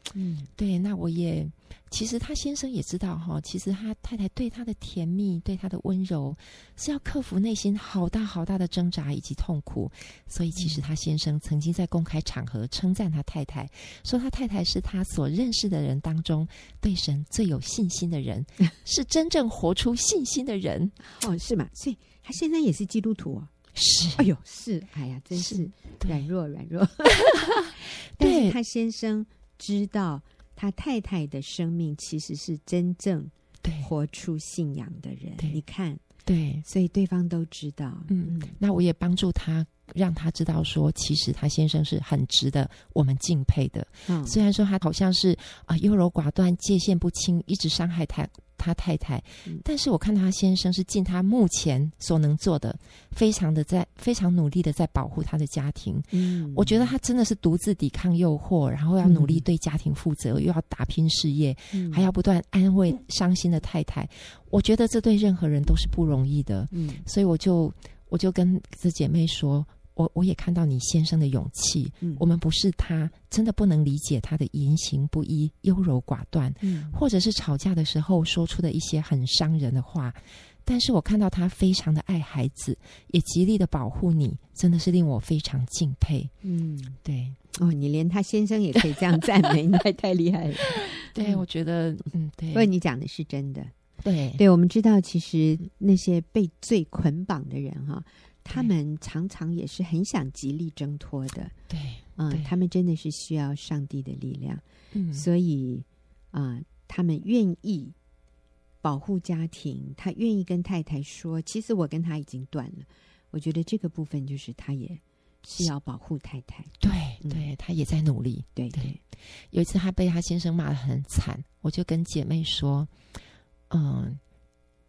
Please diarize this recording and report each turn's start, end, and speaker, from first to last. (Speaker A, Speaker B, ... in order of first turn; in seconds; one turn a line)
Speaker A: 0.1-0.5
Speaker B: 0.6-21.0
Speaker A: 10.6-10.8
Speaker A: 21.0-23.5
Speaker B: 23.8-24.3
Speaker A: 24.2-36.0
Speaker B: 25.4-26.2
Speaker B: 27.3-28.6
Speaker B: 33.6-33.9
Speaker B: 36.2-36.6
Speaker A: 36.6-38.6
Speaker B: 38.1-86.3
Speaker A: 44.1-44.4
Speaker A: 56.1-56.9
Speaker A: 59.0-59.4
Speaker A: 61.7-62.1
Speaker A: 66.7-67.0
Speaker A: 76.6-77.0
Speaker A: 86.4-87.0
Speaker B: 87.0-87.4
Speaker A: 87.5-91.4
Speaker B: 90.8-92.7
Speaker A: 92.5-93.7
Speaker B: 94.0-94.4
Speaker A: 94.4-101.5
Speaker B: 101.7-102.5
Speaker A: 102.2-108.0
Speaker B: 104.9-105.3
Speaker A: 108.8-117.5
Speaker B: 116.8-118.9
Speaker A: 118.6-119.0
Speaker B: 119.5-122.9
Speaker B: 123.7-124.2